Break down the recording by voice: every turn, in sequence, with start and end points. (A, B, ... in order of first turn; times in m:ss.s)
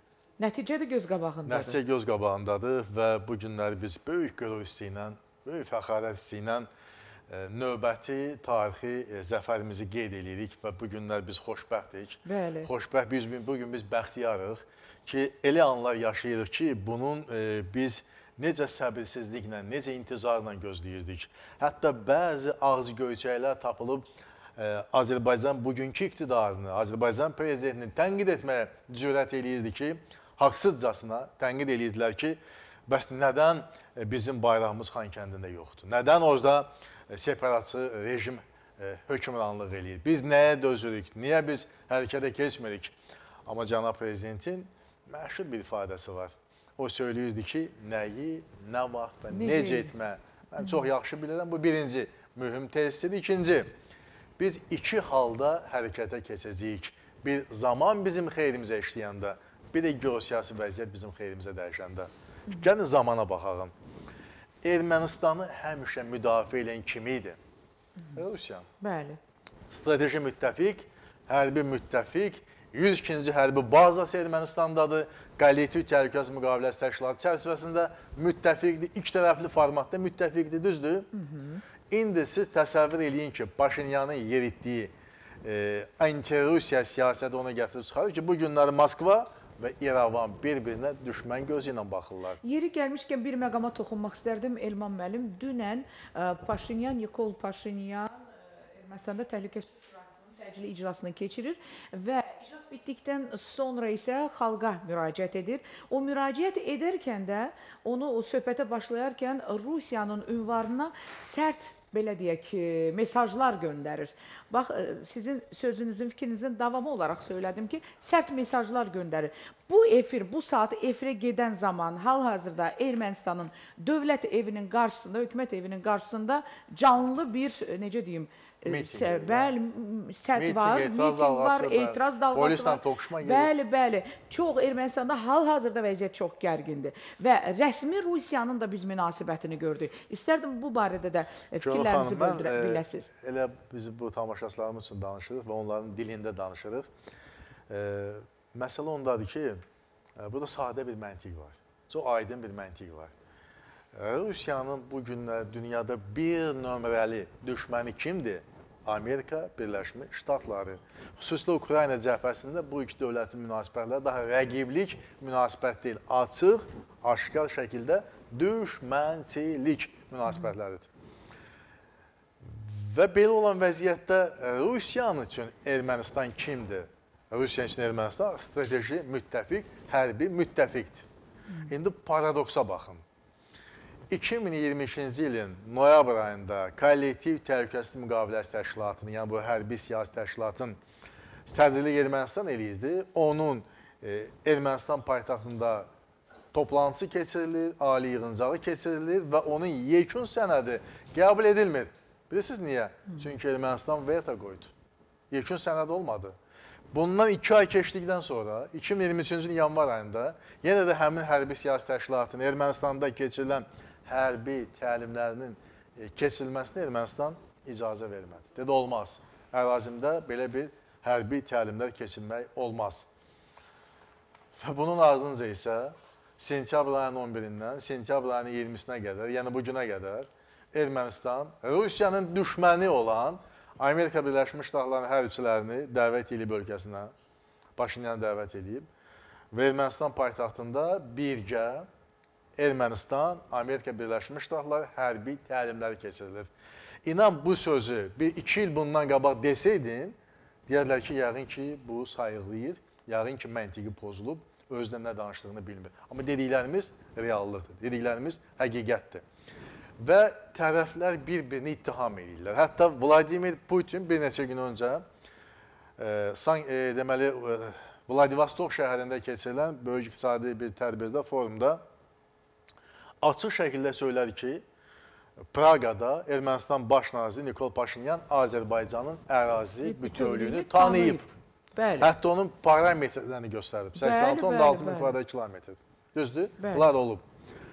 0:00.4-0:01.8 A
0:01.4-0:06.7 B
0:07.3-0:53.7 B
0:12.2-0:12.7 A
0:49.3-0:49.9 A
0:54.4-1:03.7 B
1:04.6-1:07.4 B
1:08.1-1:08.7 B
1:08.8-1:09.2 A
1:09.7-1:21.1 B
1:21.1-1:21.6 A
1:21.9-1:24.9 B
1:25.4-1:32.4 B
1:32.4-2:23.1 A
2:08.6-2:09.5 B
2:10.4-2:13.5 B
2:21.6-2:26.9 B
2:27.7-2:29.6 B
2:30.2-2:33.1 B
2:33.9-2:50.9 B
2:52.4-3:01.1 B
3:01.7-3:03.0 B
3:04.1-3:10.8 B
3:11.4-3:15.9 B
3:16.5-3:24.7 B
3:25.3-3:26.3 B
3:26.9-3:43.1 B
3:44.6-3:57.1 B
3:57.8-3:58.9 B
3:59.5-4:01.9 B
4:02.6-4:06.5 B
4:07.0-4:19.2 B
4:20.0-4:25.0 B
4:26.0-4:31.8 B
4:33.2-4:34.6 B
4:35.5-4:41.2 B
4:39.8-4:41.2 A
4:41.8-4:42.1 A
4:42.0-4:47.2 B
4:44.0-4:45.2 A
4:46.6-4:46.9 A